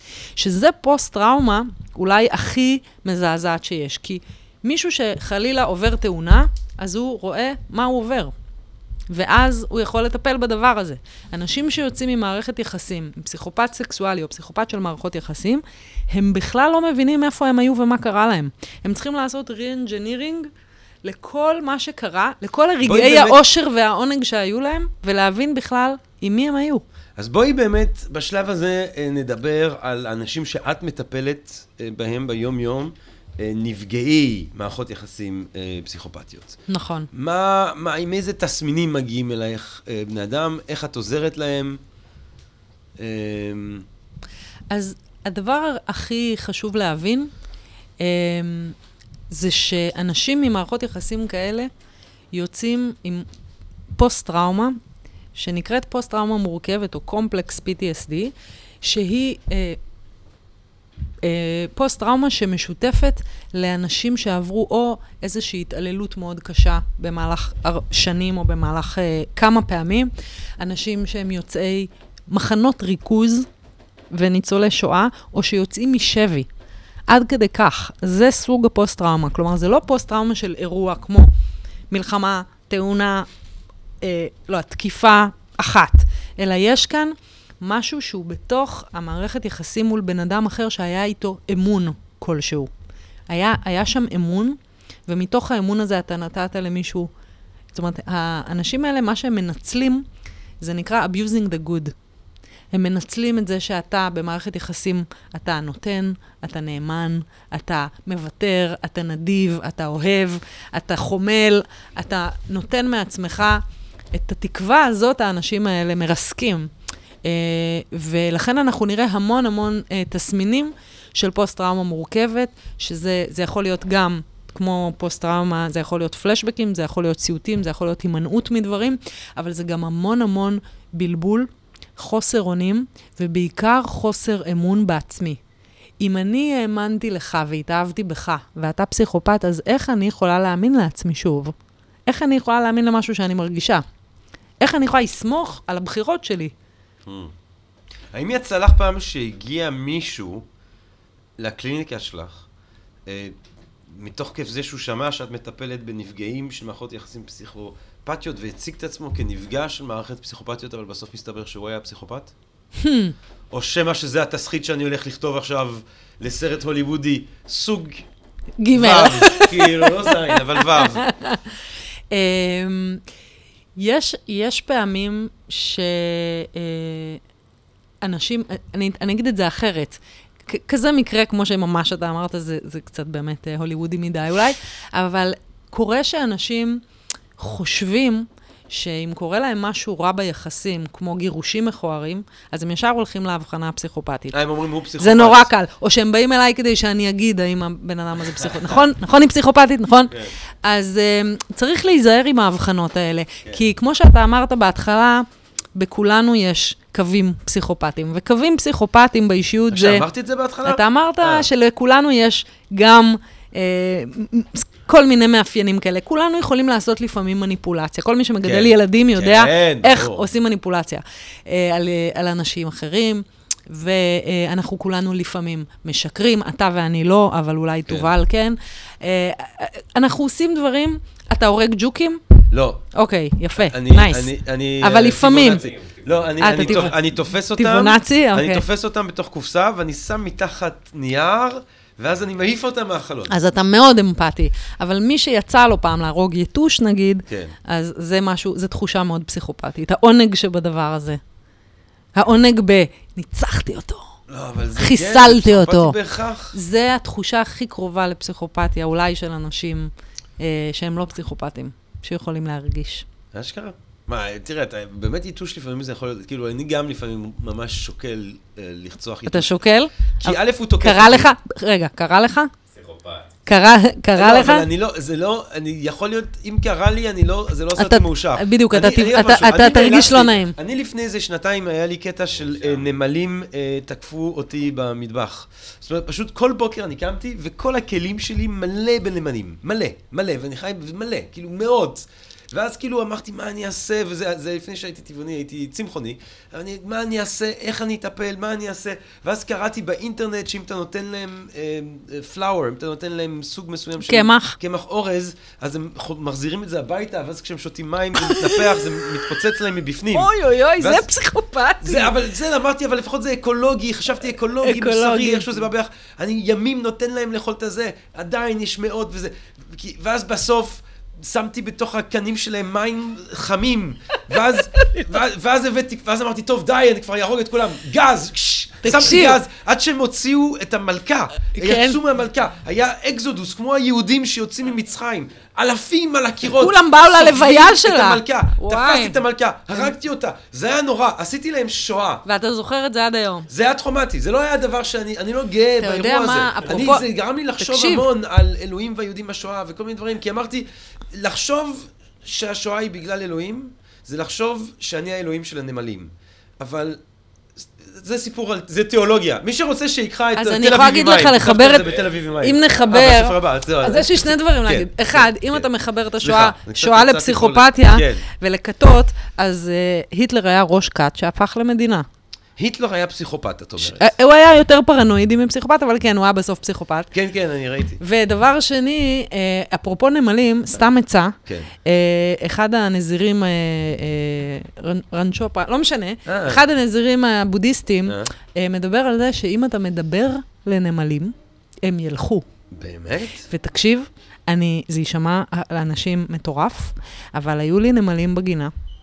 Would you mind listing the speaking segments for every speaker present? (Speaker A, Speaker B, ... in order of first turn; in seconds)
Speaker A: 0.4-8.3, 9.1-20.5, 21.0-26.8, 36.7-37.1, 44.7-47.3, 48.0-48.8, 49.3-51.7, 52.3-53.2, 54.0-54.8, 55.3-59.8, 61.2-73.5, 74.1-76.5, 77.1-81.3, 81.9-83.3, 84.0-92.7, 93.3-97.1, 97.7-100.0, 100.6-101.9, 102.7-116.7, 117.2-135.4, 136.0-141.5, 142.1-143.8, 144.6-146.5, 162.8-163.1, 168.6-171.5, 172.1-173.0, 173.8-177.2, 178.0-186.8, 187.4-194.4, 195.0-210.1, 210.6-232.2, 232.9-235.6, 236.4-238.6, 243.3-251.2, 252.1-254.1, 254.8-255.9, 256.5-263.1, 269.2-272.5, 273.4-274.6, 277.7-280.5, 304.0-304.6, 308.1-309.3, 310.1-312.1, 314.6-315.6, 328.8-329.4, 331.5-332.0, 336.4-339.2, 342.2-343.5, 345.8-347.1, 347.6-348.1, 360.4-372.1, 373.8-377.1, 378.0-392.4, 393.5-398.7
Speaker B: 22.8-23.4, 27.2-36.6, 37.1-41.8, 43.0-43.9, 147.1-147.3, 148.1-150.5, 151.4-152.4, 153.1-162.3, 163.5-168.1, 168.7-171.0, 194.3-195.5, 198.4-198.8, 209.7-211.5, 218.4-220.2, 232.5-232.8, 233.6-243.3, 247.3-247.5, 254.3-256.5, 263.3-269.6, 270.2-271.3, 274.1-311.1, 311.8-342.2, 343.5-357.0, 357.6-365.7, 366.2-368.2, 372.6-374.1, 377.1-378.0, 381.4-381.7, 386.2-386.6, 388.1-388.3, 392.7-393.5
Speaker C: 235.3-236.9, 272.7-273.3, 282.3-282.9, 361.6-362.8